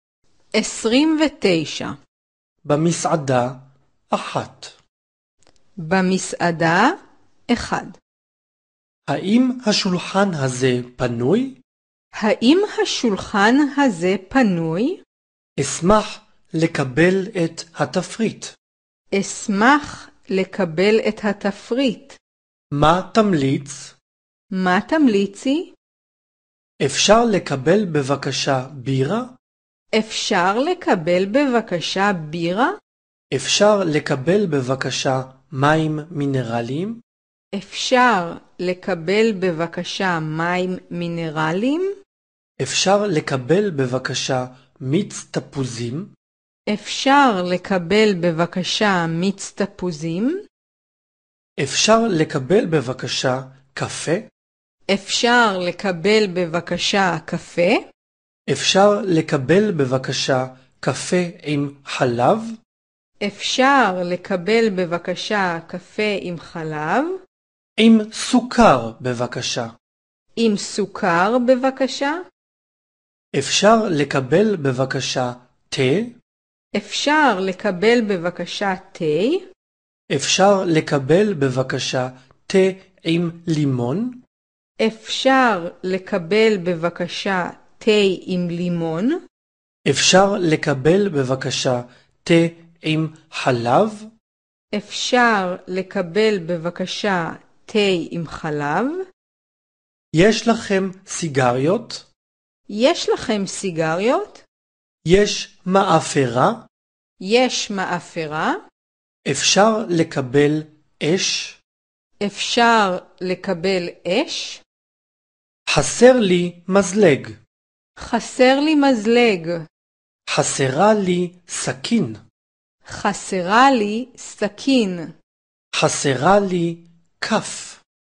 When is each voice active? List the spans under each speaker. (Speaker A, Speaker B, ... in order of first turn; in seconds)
Speaker A: 0.6-2.0, 5.8-6.9, 7.5-8.0, 12.2-15.0, 19.1-22.2, 24.5-25.7, 29.9-32.8, 37.5-41.9, 46.7-50.4, 54.9-57.8, 63.2-67.1, 70.4-72.2, 76.8-79.5, 84.8-89.2, 94.7-99.0, 102.7-104.4, 107.2-108.6, 112.2-114.6, 118.0-119.7, 122.9-125.1
Speaker B: 2.6-4.8, 9.1-11.6, 15.6-18.5, 22.7-23.9, 26.8-29.3, 33.3-37.0, 42.6-46.1, 51.6-54.3, 58.5-62.6, 67.8-69.7, 73.3-76.2, 80.1-84.2, 89.9-94.1, 100.2-102.1, 105.0-106.7, 109.3-111.6, 115.7-117.4, 120.3-122.2, 125.7-127.8